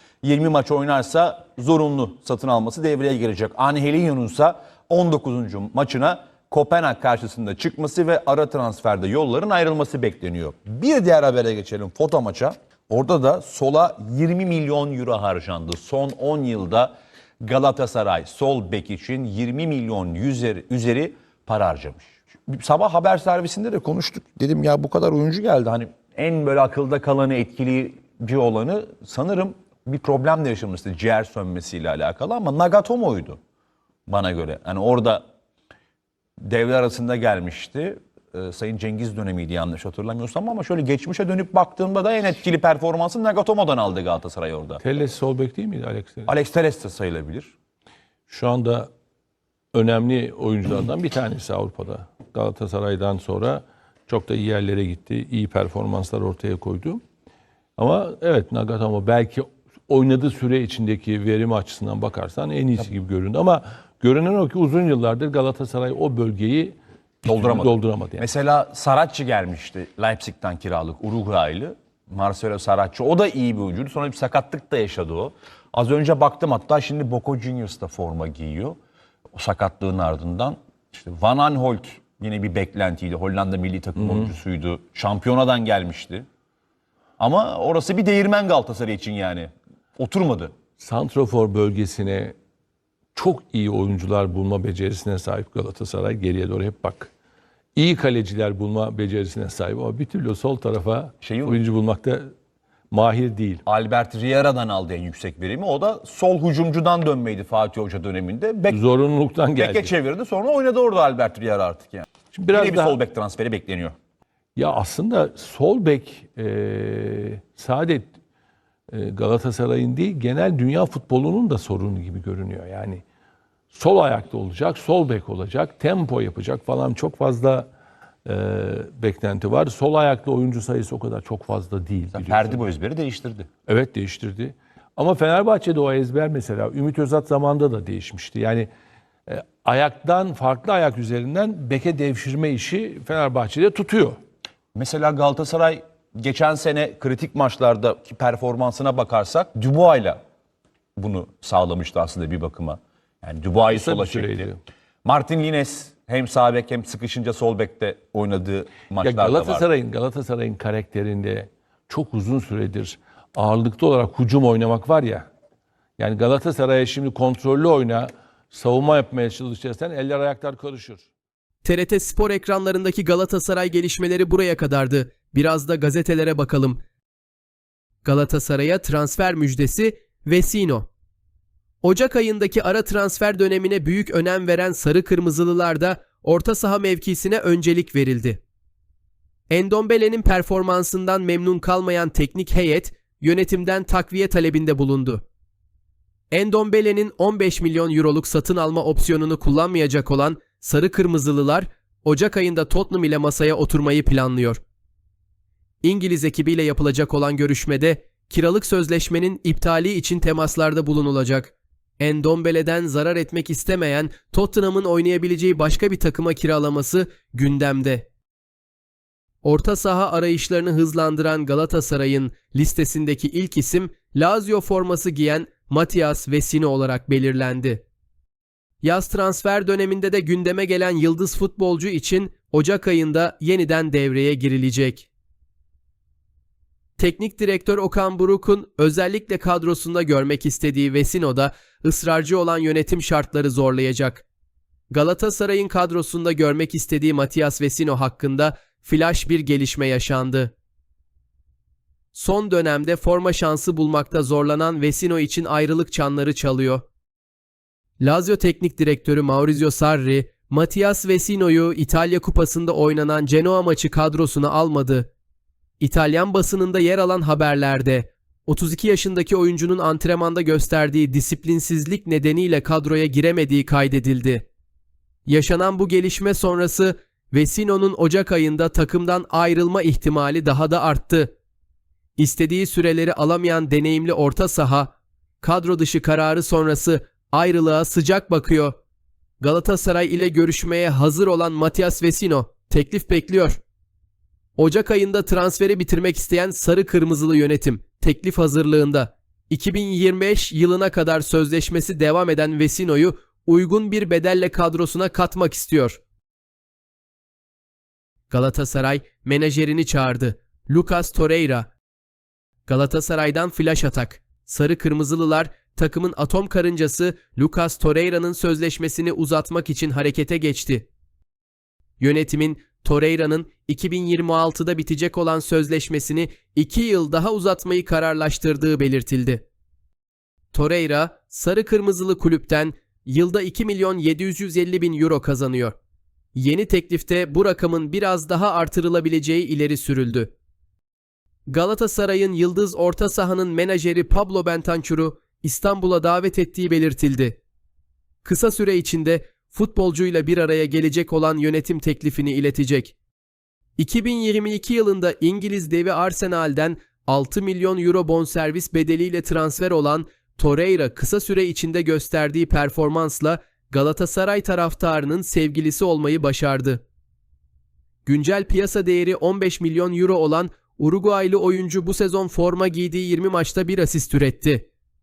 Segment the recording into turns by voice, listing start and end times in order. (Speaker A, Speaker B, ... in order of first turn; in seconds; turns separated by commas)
Speaker A: 0.2-33.4, Speaker A: 34.1-35.2, Speaker A: 36.4-44.8, Speaker B: 44.8-46.3, Speaker A: 46.3-47.5, Speaker B: 48.3-48.9, Speaker B: 49.7-57.0, Speaker B: 57.8-68.3, Speaker A: 67.2-78.8, Speaker A: 79.3-86.3, Speaker B: 84.0-84.3, Speaker A: 87.2-90.5, Speaker B: 90.8-92.4, Speaker B: 93.2-97.1, Speaker B: 97.8-102.3, Speaker A: 101.2-101.6, Speaker B: 102.9-103.6, Speaker A: 103.7-108.8, Speaker B: 108.7-109.9, Speaker A: 109.6-113.9, Speaker B: 112.3-113.0, Speaker B: 114.6-118.1, Speaker B: 118.9-123.0, Speaker B: 123.7-127.7, Speaker B: 128.2-132.6, Speaker A: 132.1-133.5, Speaker B: 133.7-138.7, Speaker B: 139.3-144.2, Speaker A: 144.8-150.2, Speaker A: 151.0-154.5, Speaker B: 153.7-154.6, Speaker A: 155.1-159.7, Speaker B: 159.0-165.3, Speaker B: 166.0-171.1, Speaker C: 171.7-176.8, Speaker C: 178.1-180.9, Speaker C: 181.8-188.4, Speaker C: 189.5-195.2, Speaker C: 196.3-204.6, Speaker C: 205.8-218.1, Speaker C: 219.4-227.8, Speaker C: 228.8-235.1, Speaker C: 237.0-244.2, Speaker C: 244.9-250.5, Speaker C: 252.1-256.9, Speaker C: 258.0-265.1, Speaker C: 265.8-274.5, Speaker C: 275.3-281.3, Speaker C: 282.2-288.8, Speaker C: 289.4-293.6, Speaker C: 294.6-306.0, Speaker C: 308.3-311.7, Speaker C: 312.7-320.9, Speaker C: 322.0-329.4, Speaker C: 330.5-335.8, Speaker C: 336.4-340.3, Speaker C: 341.5-347.4, Speaker C: 348.2-352.9, Speaker C: 353.8-366.8, Speaker C: 368.1-374.7